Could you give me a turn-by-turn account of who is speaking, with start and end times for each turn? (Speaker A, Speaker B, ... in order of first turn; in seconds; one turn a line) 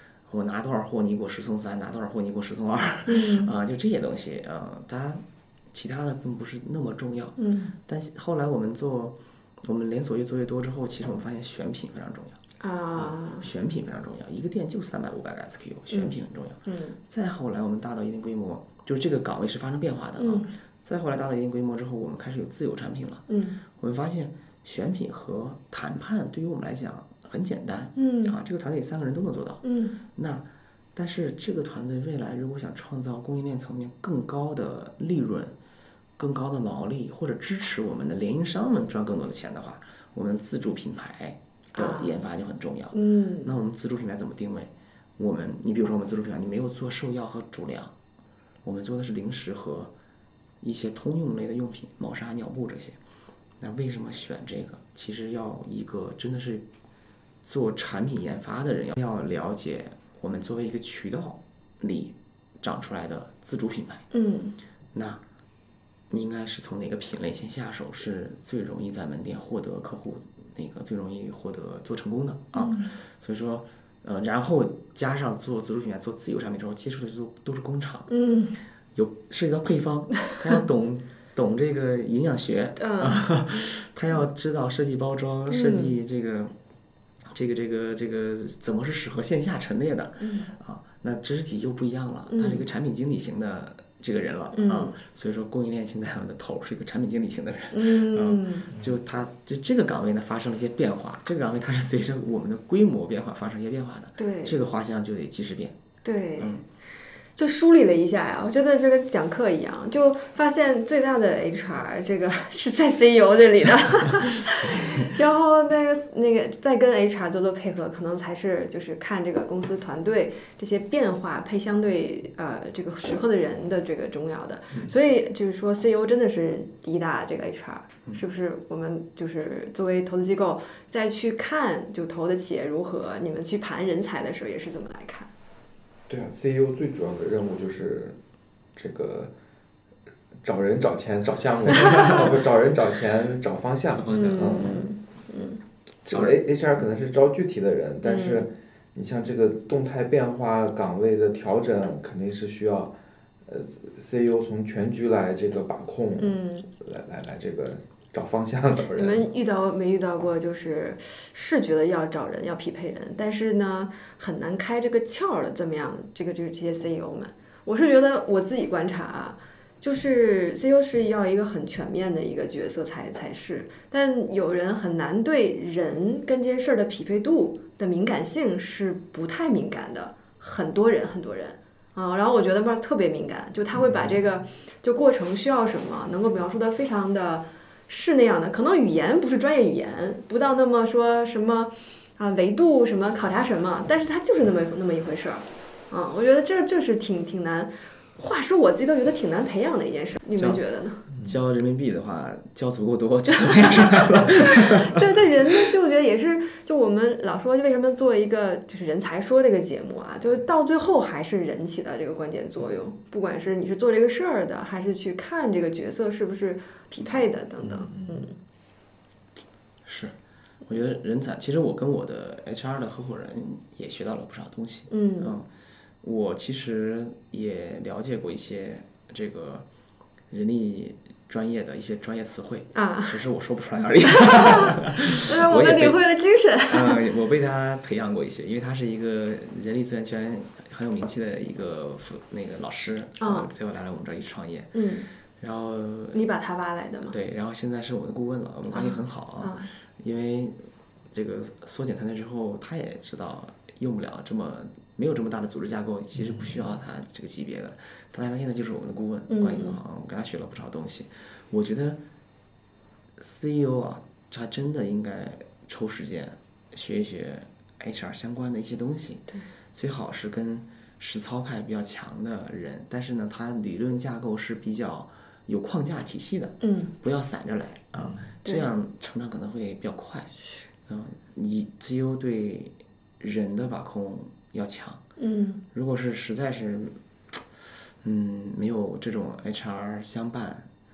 Speaker A: 0.3-12.4
Speaker B: 3.1-3.5
Speaker B: 7.4-7.8
Speaker B: 12.6-13.4
Speaker A: 12.9-35.6
Speaker B: 15.9-16.1
Speaker B: 16.7-17.0
Speaker B: 20.2-20.5
Speaker B: 23.3-23.6
Speaker B: 27.9-28.4
Speaker B: 29.6-30.0
Speaker A: 36.2-48.0
Speaker B: 41.7-42.1
Speaker B: 42.9-43.5
Speaker A: 48.6-49.9
Speaker A: 50.6-53.0
Speaker A: 53.6-56.7
Speaker A: 57.4-64.1
Speaker B: 64.1-64.6
Speaker A: 64.9-65.2
Speaker A: 66.1-78.1
Speaker B: 72.5-72.9
Speaker B: 78.1-78.6
Speaker A: 79.0-86.5
Speaker B: 82.8-83.6
Speaker B: 85.5-86.0
Speaker A: 87.3-105.8
Speaker B: 90.2-90.5
Speaker B: 92.3-92.6
Speaker B: 94.5-95.0
Speaker B: 97.7-98.7
Speaker B: 104.2-104.6
Speaker B: 106.0-106.5
Speaker A: 106.4-106.6
Speaker B: 107.4-135.3
Speaker C: 136.1-138.2
Speaker C: 138.8-139.3
Speaker C: 140.4-144.9
Speaker B: 144.1-145.6
Speaker C: 146.1-152.9
Speaker A: 146.1-146.4
Speaker B: 148.0-148.4
Speaker C: 153.4-159.3
Speaker B: 156.2-156.7
Speaker B: 158.9-201.0
Speaker A: 200.4-200.6
Speaker A: 201.2-205.7
Speaker B: 203.4-218.3
Speaker C: 217.6-218.3
Speaker A: 219.8-220.1
Speaker A: 220.7-225.5
Speaker B: 224.9-225.4
Speaker A: 226.0-229.7
Speaker A: 230.3-236.0
Speaker B: 232.7-233.2
Speaker B: 234.1-237.0
Speaker A: 236.7-244.8
Speaker B: 243.2-243.5
Speaker B: 244.7-245.1
Speaker A: 245.4-246.2
Speaker B: 246.1-247.1
Speaker A: 247.1-250.6
Speaker B: 248.7-249.7
Speaker A: 251.1-262.0
Speaker B: 259.3-259.8
Speaker A: 263.2-280.3
Speaker B: 276.6-276.9
Speaker B: 278.4-278.7
Speaker A: 280.9-285.0
Speaker B: 285.2-285.6
Speaker A: 285.7-287.0
Speaker A: 288.0-290.7